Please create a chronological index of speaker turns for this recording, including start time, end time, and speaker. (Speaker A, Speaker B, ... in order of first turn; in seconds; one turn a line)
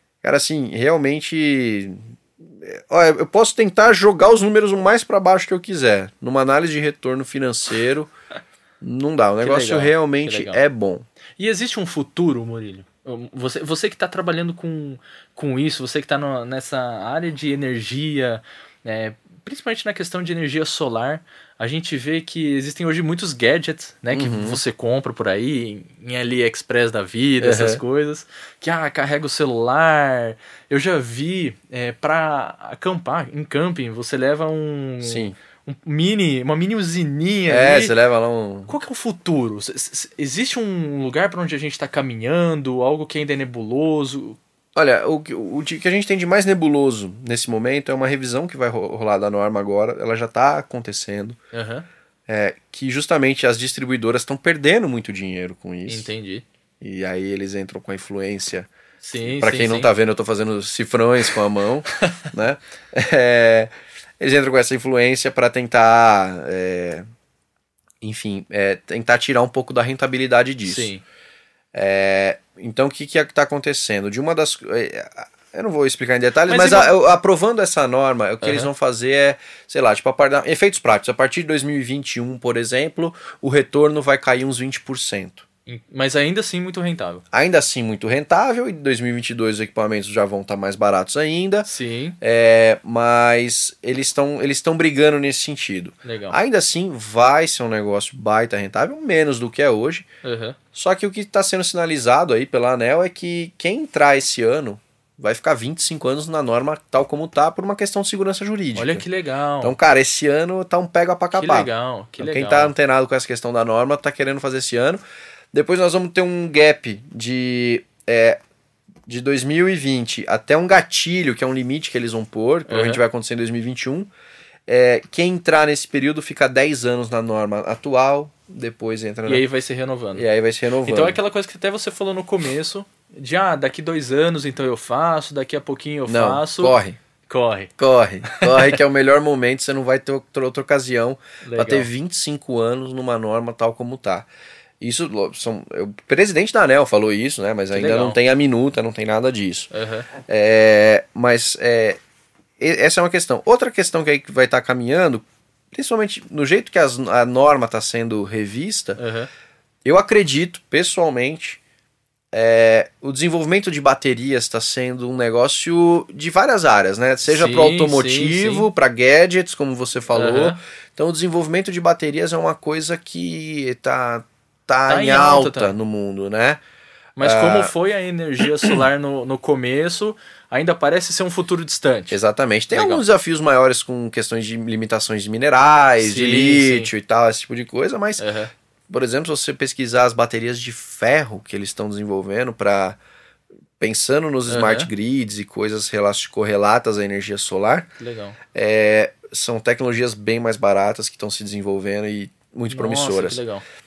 Speaker A: 0.2-8.1
Speaker A: 8.8-11.1
Speaker B: 9.4-10.6
Speaker B: 11.4-37.9
Speaker A: 24.1-24.6
Speaker A: 27.4-27.8
Speaker A: 35.0-35.4
Speaker A: 37.5-38.7
Speaker B: 38.7-44.4
Speaker A: 44.8-51.4
Speaker B: 51.5-51.9
Speaker A: 52.3-56.1
Speaker B: 55.9-56.5
Speaker A: 56.8-58.7
Speaker B: 59.0-59.9
Speaker A: 59.2-67.0
Speaker B: 62.0-62.3
Speaker A: 68.0-70.9
Speaker B: 70.6-71.0
Speaker A: 71.7-85.5
Speaker B: 76.5-76.9
Speaker B: 78.4-78.7
Speaker B: 85.7-87.2
Speaker A: 87.3-91.7
Speaker B: 91.7-92.2
Speaker A: 92.2-100.1
Speaker B: 96.0-96.4
Speaker B: 100.2-100.6
Speaker A: 100.7-109.0
Speaker B: 108.8-109.8
Speaker A: 109.6-115.0
Speaker B: 111.3-112.7
Speaker A: 115.5-118.4
Speaker A: 119.1-124.1
Speaker B: 122.7-123.0
Speaker A: 124.7-129.4
Speaker B: 129.3-130.3
Speaker A: 130.1-131.2
Speaker B: 130.8-137.7
Speaker A: 136.1-137.0
Speaker A: 137.8-144.3
Speaker B: 138.2-138.8
Speaker B: 141.4-141.9
Speaker A: 144.8-152.0
Speaker B: 147.7-148.2
Speaker B: 149.7-150.1
Speaker A: 152.6-159.0
Speaker B: 159.0-159.3
Speaker A: 159.8-161.6
Speaker A: 162.3-176.6
Speaker B: 167.3-168.7
Speaker B: 170.1-170.6
Speaker B: 174.9-175.7
Speaker B: 177.2-182.2
Speaker A: 177.2-177.7
Speaker A: 182.1-188.3
Speaker B: 182.7-183.0
Speaker B: 186.0-186.9
Speaker B: 188.2-188.5
Speaker A: 188.9-193.0
Speaker A: 193.8-197.9
Speaker B: 194.5-194.9
Speaker B: 198.0-198.4
Speaker A: 198.5-203.4
Speaker B: 202.7-203.6